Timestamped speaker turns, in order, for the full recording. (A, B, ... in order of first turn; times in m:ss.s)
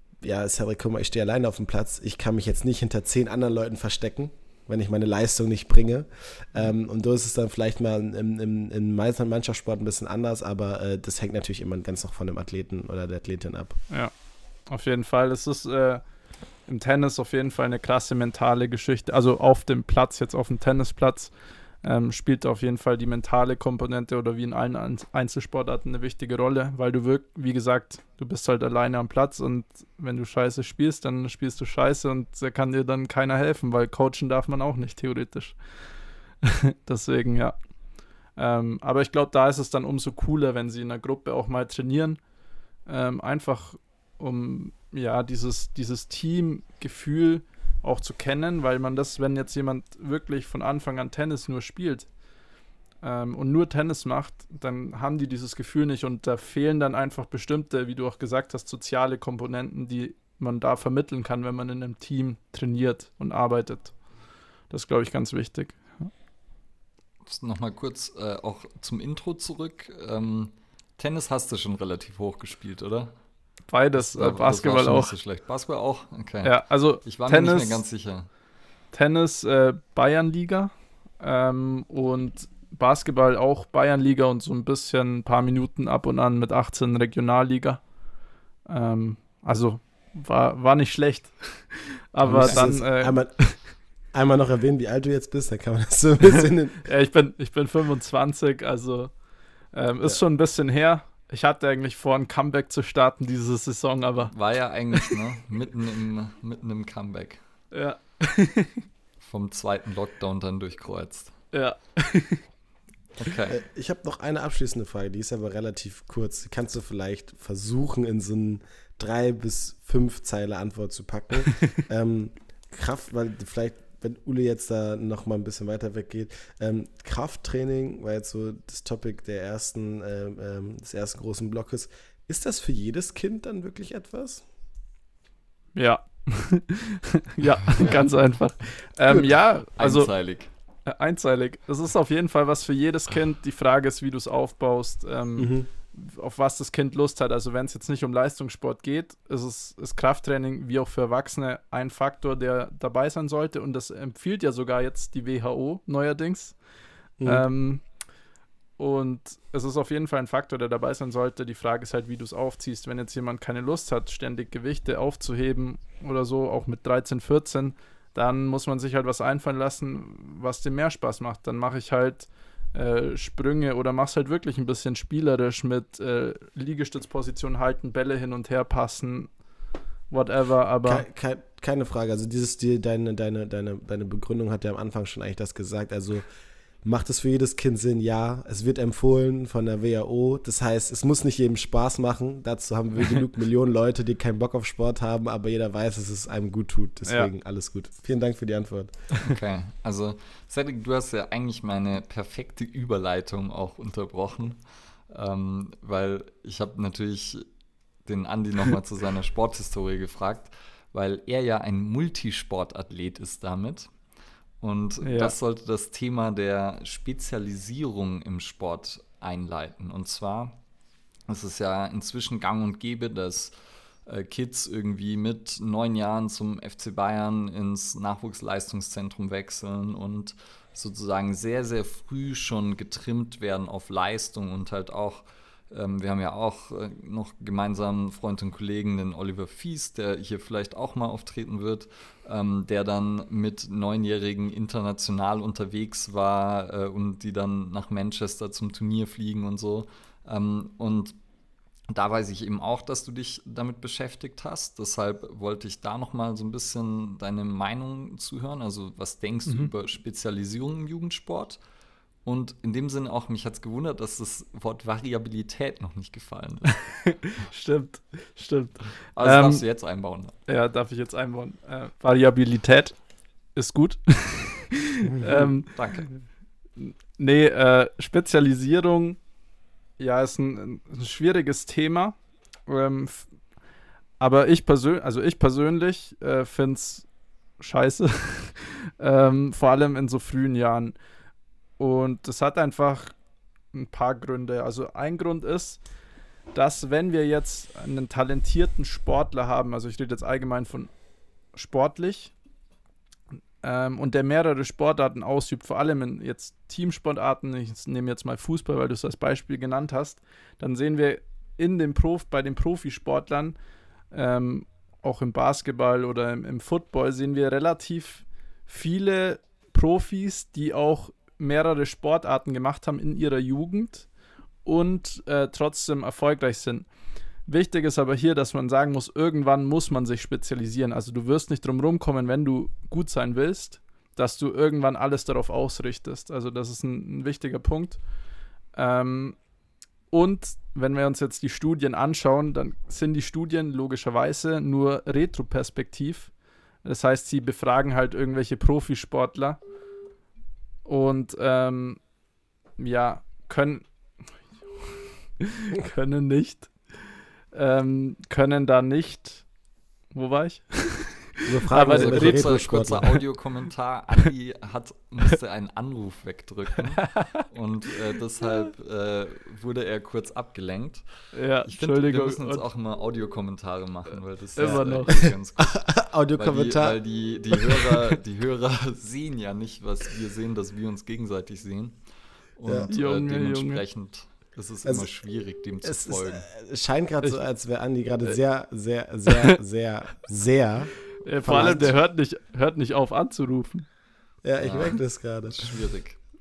0:00.2-0:13.8 A
0:14.7-0:16.0 B
0:16.7-0:21.3 B
0:21.8-0:35.6 B
0:36.4-0:37.6 B
0:38.4-0:42.2 B
0:42.9-0:52.1 B
0:53.0-1:04.0 B
1:04.7-1:06.1 B
1:07.3-1:13.2 C
1:13.7-1:15.1 B
1:14.0-1:18.3 C
1:16.4-1:17.8 B
1:18.9-1:27.8 B
1:28.7-1:33.6 B
1:32.2-1:36.8 A
1:32.4-1:32.6 C
1:36.8-1:39.1 B
1:39.7-1:44.3 B
1:44.3-1:47.4 C
1:47.7-1:48.8 B
1:49.2-1:51.4 C
1:51.5-1:52.4 B
1:53.2-1:53.6 C
1:53.5-2:14.4 A
2:15.8-2:20.1 B
2:19.8-2:20.5 C
2:20.8-2:36.6 B
2:25.4-2:25.7 A
2:37.2-2:37.4 A
2:37.2-2:37.8 B
2:38.8-2:59.3 B
3:00.1-3:01.0 B
3:00.8-3:06.3 A
3:06.8-3:19.1 A
3:19.2-3:27.4 C
3:28.0-3:33.9 C
3:34.6-3:40.6 C
3:35.0-3:35.3 B
3:41.3-3:43.5 C
3:44.1-4:11.2 C
4:11.9-4:21.6 C
4:19.5-4:19.7 B
4:22.2-4:27.1 C
4:27.0-4:29.6 B
4:29.2-4:30.4 C
4:30.5-4:33.0 B
4:33.6-4:36.1 B
4:35.2-4:35.4 A
4:35.6-4:36.1 C
4:36.8-4:39.2 B
4:40.0-4:42.2 B
4:42.7-4:43.3 B
4:44.2-4:47.1 B
4:47.6-4:51.0 B
4:51.8-4:53.1 B
4:53.7-4:55.8 B
4:56.5-5:00.9 B
5:01.5-5:02.3 B
5:03.6-5:13.6 B
5:14.1-5:24.1 B
5:24.6-5:26.9 B
5:27.5-5:38.0 B
5:38.8-5:39.4 B
5:40.1-5:46.3 B
5:46.8-5:49.6 B
5:50.8-5:52.0 B
5:52.8-5:53.9 B
5:55.4-5:56.7 B
5:57.5-5:59.4 B
6:00.1-6:03.0 B
6:01.5-6:03.1 A
6:01.9-6:11.0 C
6:07.0-6:07.3 B
6:11.3-6:12.6 B
6:11.6-6:22.0 C
6:14.6-6:15.3 B
6:14.6-6:18.0 A
6:22.6-6:26.5 C
6:22.6-6:22.9 A
6:22.9-6:23.8 B
6:24.8-6:25.1 A
6:25.8-6:32.0 A
6:31.2-6:33.9 B
6:34.4-6:35.9 A
6:34.6-6:36.2 C